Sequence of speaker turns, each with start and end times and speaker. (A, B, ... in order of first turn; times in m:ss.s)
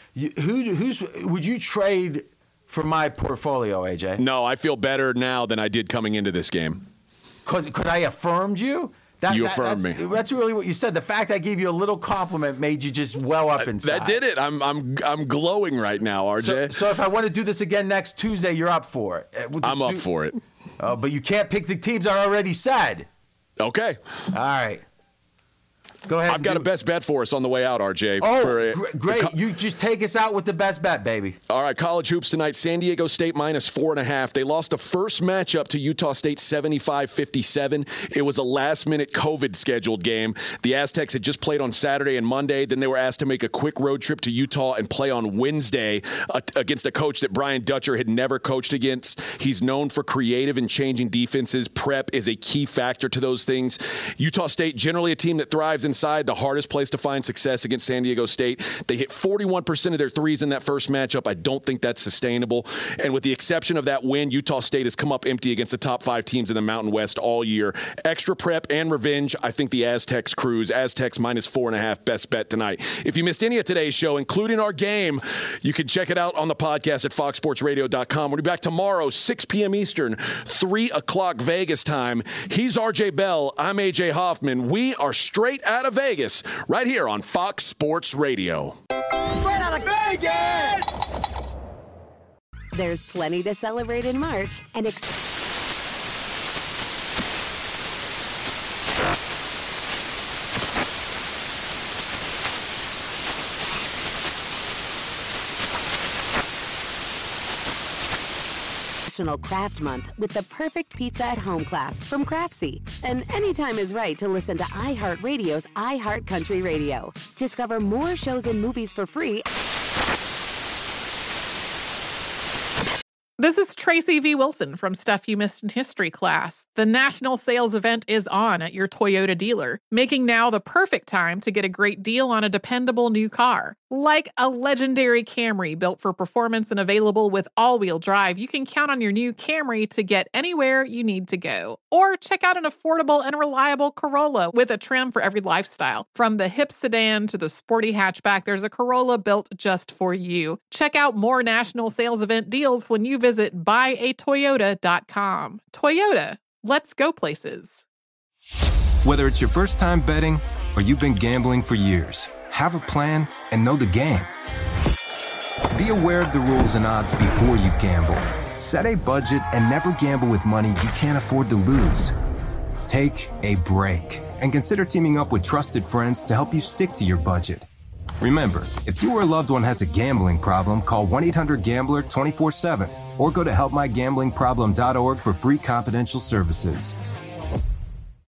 0:00.1-0:04.2 A
0:04.2-0:06.8 B
0:07.4-0:14.2 A
0:09.3-0:10.0 B
0:13.6-0:16.8 B
0:16.4-0:20.0 A
0:19.6-0:20.4 B
0:20.8-0:23.1 A
0:23.6-0:24.0 B
0:24.3-0:24.8 A
0:26.1-0:26.7 A
0:26.3-0:29.3 B
0:28.2-0:31.4 A
0:31.5-1:28.8 B
1:32.7-1:35.1 C
1:49.1-1:59.4 C
2:03.4-2:37.8 D
2:39.0-2:44.3 E
2:45.7-2:52.1 E
2:52.8-2:57.7 E
2:58.2-3:07.0 E